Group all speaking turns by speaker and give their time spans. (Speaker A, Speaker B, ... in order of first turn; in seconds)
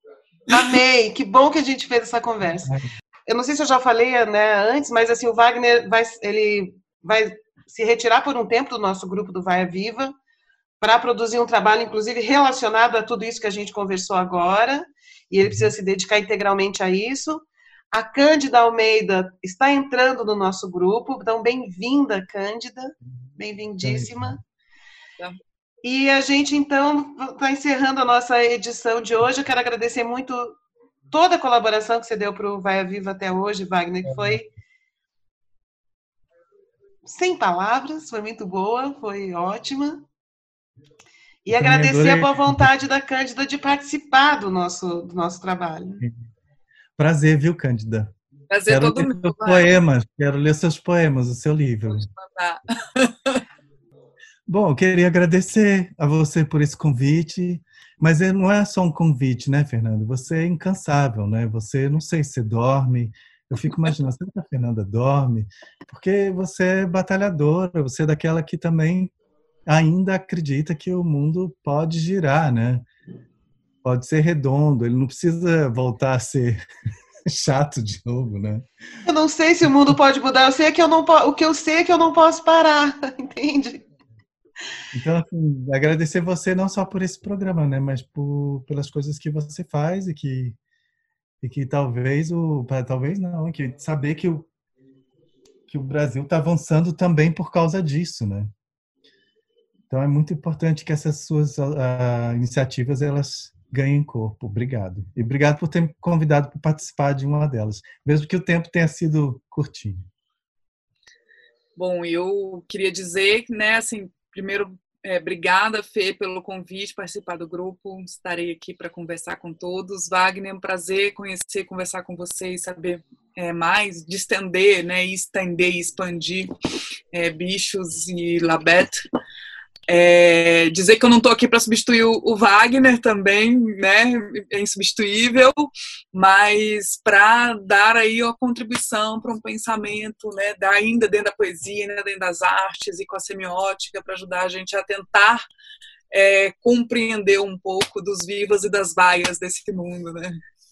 Speaker A: 0.5-2.7, 3.3-10.1, 10.8-24.4, 25.8-30.6, 31.1-34.5, 37.0-40.0, 41.4-46.0, 79.0-83.8
Speaker B: 15.4-15.7, 23.8-24.4, 34.0-34.4, 41.5-42.7, 46.0-46.3, 47.0-48.1, 48.7-52.1, 54.5-69.1, 69.7-72.8, 73.8-76.6, 77.2-78.6, 84.9-90.6, 91.4-94.5, 95.7-98.5, 99.9-110.0
Speaker C: 48.5-49.7, 51.9-53.4, 111.8-126.5, 127.1-129.0, 129.9-145.4, 146.1-150.4